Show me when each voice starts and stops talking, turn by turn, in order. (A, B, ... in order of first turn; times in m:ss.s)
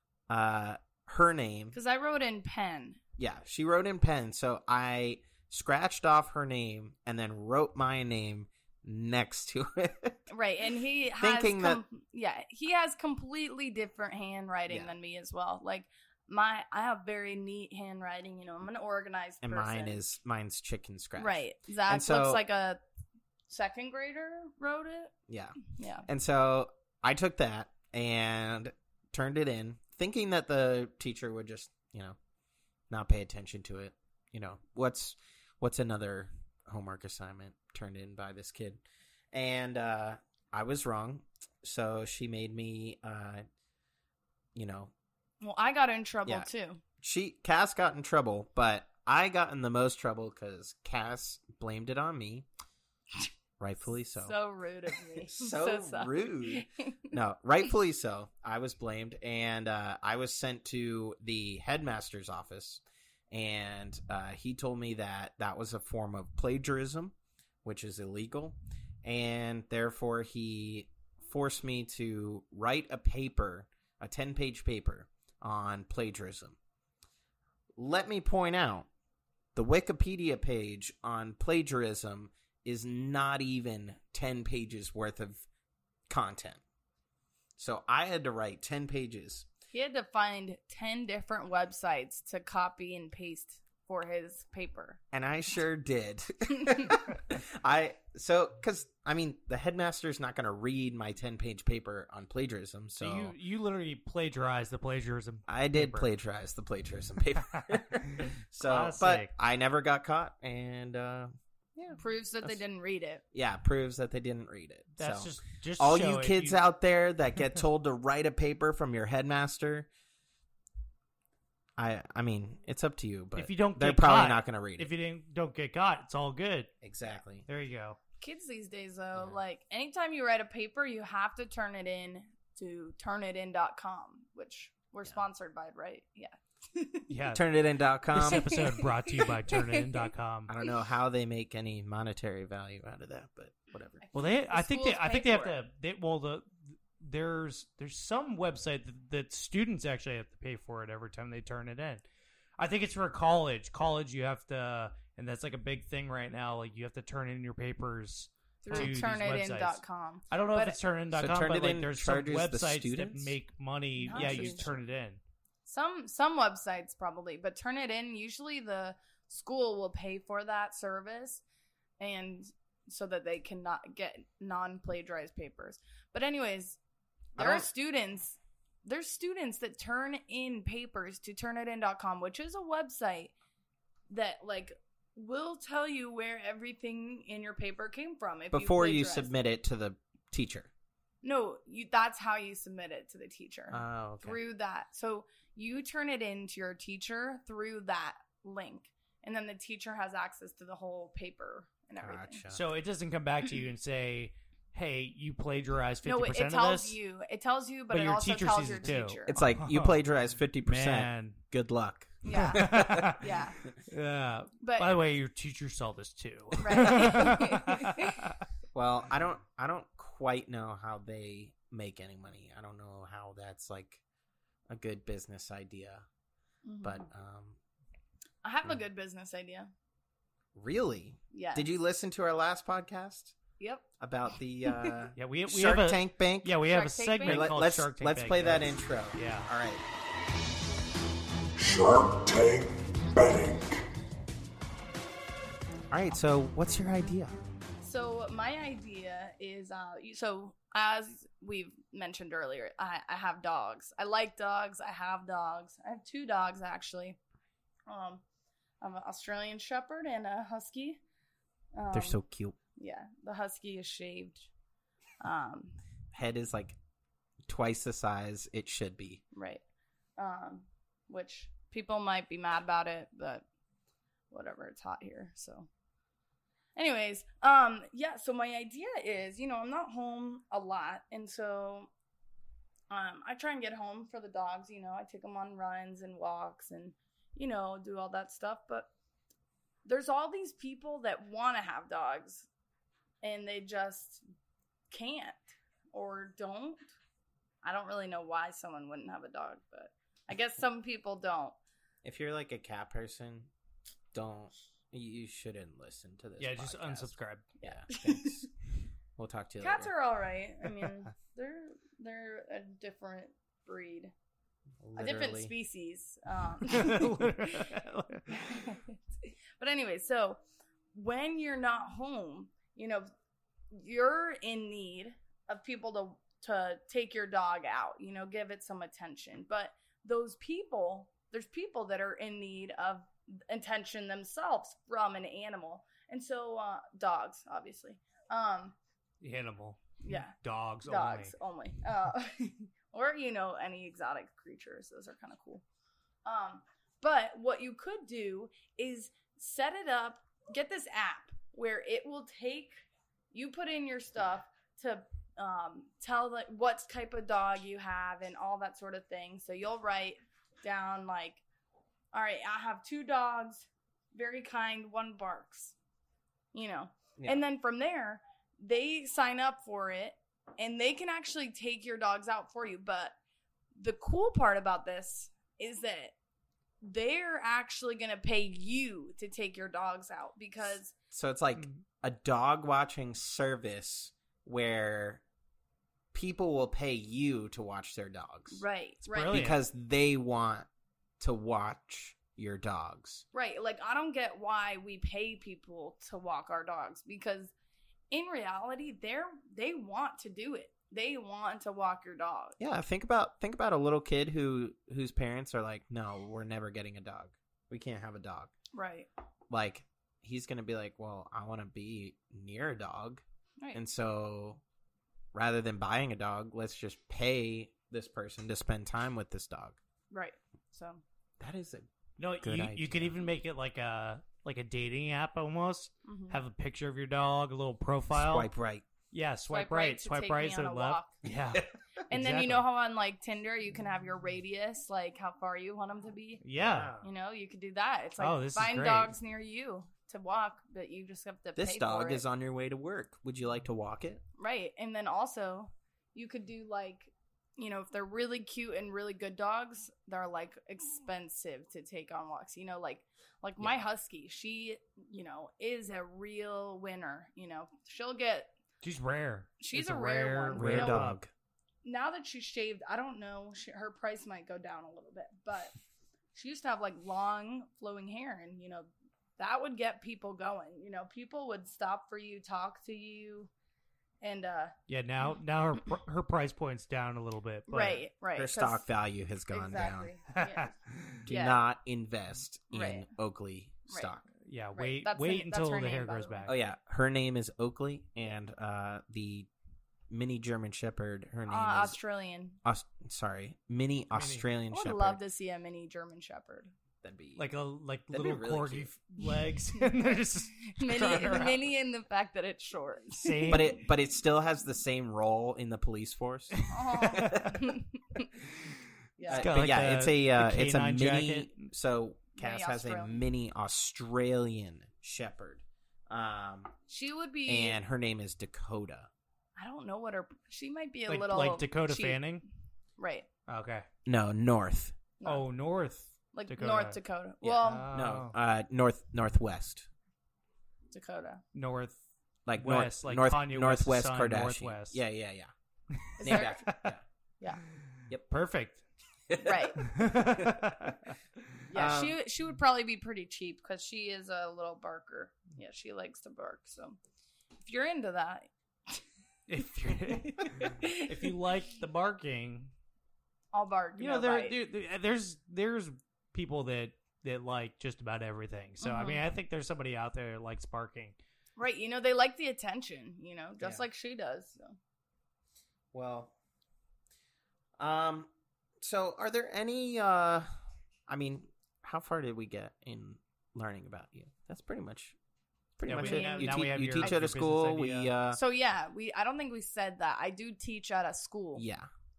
0:00.3-0:01.8 A
0:01.7-0:03.0 B
0:03.2-0:10.2 A
0:10.3-0:20.0 B
0:11.2-0:11.8 A
0:19.4-0:22.4 A
0:21.2-0:22.8 B
0:23.5-0:25.1 B
0:25.3-0:32.2 A
0:25.6-0:26.1 B
0:32.9-0:43.4 A
0:44.6-0:44.9 A
0:45.4-0:46.8 B
0:47.0-0:52.5 A
0:53.6-0:54.4 A
0:54.2-0:57.1 B
0:55.2-1:16.6 A
1:17.8-1:18.9 A
1:19.6-1:25.4 A
1:26.1-1:26.6 A
1:27.6-1:29.5 A
1:29.7-1:35.0 B
1:35.1-1:43.4 A
1:43.0-1:46.1 C
1:45.5-1:52.6 A
1:47.5-1:49.3 C
1:52.0-1:53.2 B
1:53.3-1:59.9 A
1:55.0-1:56.6 C
2:01.8-2:04.9 A
2:03.4-2:06.7 C
2:06.8-2:07.5 A
2:07.5-2:08.0 C
2:08.2-2:17.1 B
2:17.1-2:17.5 C
2:17.3-2:18.6 A
2:18.1-2:20.5 C
2:18.3-2:20.1 B
2:20.5-2:24.0 A
2:24.0-2:25.6 B
2:24.1-2:32.0 C
2:32.6-2:45.2 C
2:38.6-2:40.8 B
2:38.7-2:39.0 A
2:41.1-2:43.4 A
2:44.0-2:44.8 B
2:44.1-2:44.8 A
2:45.7-2:51.4 B
2:52.0-2:56.8 B
2:57.4-2:57.7 A
2:57.4-3:03.3 B
3:04.1-3:09.3 B
3:08.5-3:10.7 A
3:11.2-3:22.4 B
3:13.7-3:14.4 A
3:22.0-3:22.6 A
3:22.5-3:27.0 C
3:26.0-3:29.4 B
3:27.9-3:30.0 C
3:29.3-3:33.2 A
3:30.6-3:31.4 C
3:32.2-3:33.6 B
3:32.3-3:33.3 C
3:33.9-3:38.4 C
3:34.6-3:35.0 B
3:36.6-3:38.3 B
3:36.8-3:37.1 A
3:38.7-3:44.0 A
3:44.7-3:46.1 A
3:46.6-3:47.1 B
3:46.8-3:47.6 A
3:48.4-3:49.7 B
3:50.6-3:53.4 A
3:51.3-3:51.7 B
3:53.6-3:53.9 B
3:54.0-3:56.6 A
3:54.6-3:54.9 B
3:55.2-3:59.5 C
3:56.6-3:57.5 B
3:57.2-3:59.8 A
4:03.2-4:03.5 A
4:05.9-4:07.4 A
4:07.8-4:17.2 B
4:17.9-4:18.2 B
4:18.8-4:21.0 B
4:21.7-4:22.2 B
4:21.9-4:22.6 A
4:22.8-4:24.5 B
4:25.2-4:25.8 B
4:26.1-4:26.8 A
4:27.5-4:29.2 A
4:29.3-4:29.6 B
4:30.2-4:33.4 B
4:34.3-4:35.7 B
4:36.8-4:41.9 B
4:42.9-4:48.9 B
4:49.8-4:52.5 B
4:53.2-4:54.2 B
4:54.9-4:56.9 B
4:57.6-5:01.6 B
5:02.0-5:03.5 A
5:04.1-5:08.5 A
5:06.4-5:07.5 C
5:07.7-5:08.4 B
5:09.2-5:09.9 A
5:09.6-5:14.1 B
5:14.8-5:15.5 A
5:15.0-5:19.0 B
5:16.7-5:18.3 C
5:19.6-5:20.4 B
5:20.9-5:23.1 B
5:23.7-5:38.8 B
5:39.2-5:41.3 C
5:40.0-5:45.6 B
5:46.2-6:01.4 B
6:02.1-6:05.8 B
6:06.5-6:13.2 B
6:07.2-6:07.4 A
6:13.8-6:16.2 B
6:16.8-6:20.9 B
6:21.1-6:25.2 A
6:26.1-6:28.6 A
6:28.5-6:29.4 B
6:29.1-6:29.6 C
6:29.3-6:30.7 A
6:31.2-6:33.2 A
6:33.3-6:37.5 B
6:38.1-6:42.6 B
6:42.6-6:48.5 A
6:48.7-6:49.1 B
6:49.5-6:54.6 A
6:55.3-6:59.8 A
7:00.1-7:01.0 B
7:01.4-7:01.9 A
7:02.2-7:08.5 C
7:02.4-7:03.2 A
7:06.0-7:06.4 B
7:08.1-7:08.8 A
7:09.1-7:12.6 C
7:09.5-7:11.2 B
7:12.1-7:16.4 B
7:16.4-7:17.0 C
7:16.6-7:17.1 A
7:17.0-7:22.2 B
7:18.2-7:19.2 C
7:21.6-7:24.2 A
7:24.4-7:38.5 B
7:38.8-7:41.2 C
7:39.6-7:41.1 B
7:40.6-7:41.3 A
7:41.8-7:45.8 B
7:46.3-7:53.5 B
7:54.2-7:55.4 B
7:54.9-7:58.0 C
7:57.7-7:58.9 B
7:58.4-8:00.1 A
7:59.5-8:01.6 B
8:00.4-8:01.2 C
8:01.3-8:04.3 A
8:02.7-8:03.1 B
8:04.4-8:06.5 C
8:04.7-8:06.5 B
8:06.5-8:09.5 A
8:10.1-8:12.0 A
8:11.5-8:12.6 B
8:12.6-8:15.2 A
8:14.1-8:14.5 C
8:14.7-8:16.7 B
8:17.0-8:17.5 A
8:17.4-8:21.6 C
8:18.1-8:18.9 A
8:19.2-8:23.7 B
8:23.2-8:23.8 C
8:23.5-8:27.6 A
8:26.6-8:27.6 C
8:26.7-8:28.3 B
8:29.2-8:29.5 B
8:29.3-8:31.7 C
8:29.3-8:36.8 A
8:32.4-8:33.2 B
8:36.9-8:37.8 B
8:37.5-8:39.1 A
8:39.6-8:42.4 B
8:41.1-8:42.4 C
8:43.0-8:43.3 B
8:43.5-8:43.9 C
8:44.1-8:45.0 A
8:45.2-8:45.5 B
8:45.2-8:47.0 C
8:46.3-8:47.9 B
8:47.4-8:49.9 A
8:47.6-8:48.4 C
8:50.9-8:51.4 B
8:51.6-8:52.0 C
8:52.5-8:55.5 A
8:52.6-8:55.0 C
8:56.0-8:56.9 C
8:56.2-8:56.6 B
8:56.2-8:57.0 A
8:57.8-8:58.8 C
8:59.3-9:00.6 A
8:59.4-8:59.8 B
8:59.8-9:01.6 C
9:01.7-9:07.0 B
9:01.7-9:02.2 A
9:07.6-9:09.0 B
9:09.5-9:12.7 C
9:10.4-9:11.3 B
9:13.5-9:14.6 B
9:14.0-9:21.2 C
9:18.8-9:19.3 B
9:21.6-9:24.8 B
9:23.6-9:23.8 A
9:25.9-9:26.3 A
9:27.8-9:30.5 A
9:31.1-9:35.2 A
9:35.8-9:38.4 A
9:35.9-9:38.1 C
9:35.9-9:37.2 B
9:38.3-9:41.6 B
9:41.6-9:41.9 A